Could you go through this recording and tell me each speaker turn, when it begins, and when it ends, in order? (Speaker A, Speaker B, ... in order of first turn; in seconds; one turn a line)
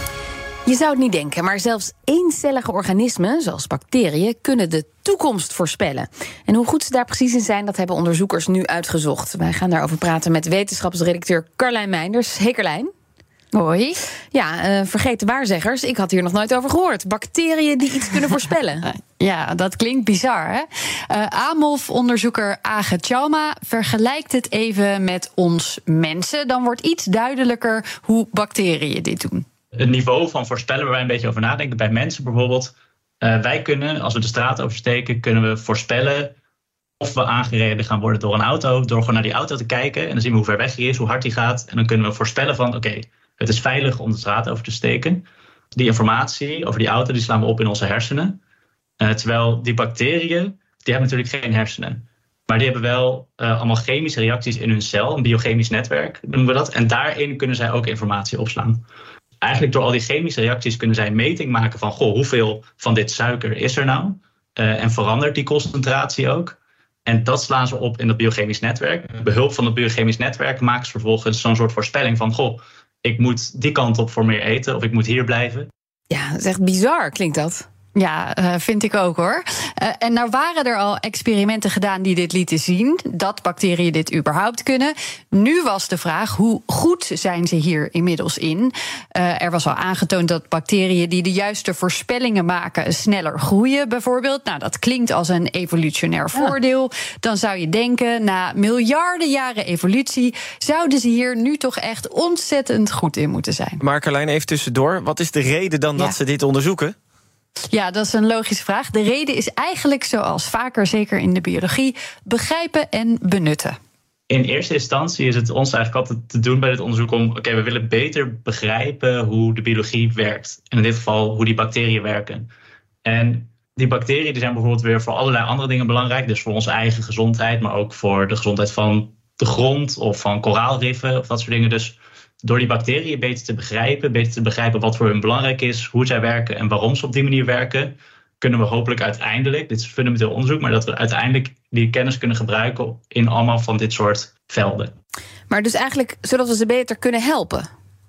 Speaker A: 0.6-12.9
Speaker B: 13.5-14.0
Speaker A: 14.3-18.8
Speaker B: 19.1-29.4
Speaker C: 29.8-36.3
Speaker C: 37.0-48.4
Speaker C: 49.0-58.8
Speaker C: 59.4-75.7
Speaker A: 76.1-77.6
Speaker B: 77.9-103.8
Speaker D: 103.8-107.0
Speaker B: 107.7-113.8
Speaker C: 114.3-122.5
Speaker C: 123.0-144.9
Speaker A: 145.5-147.7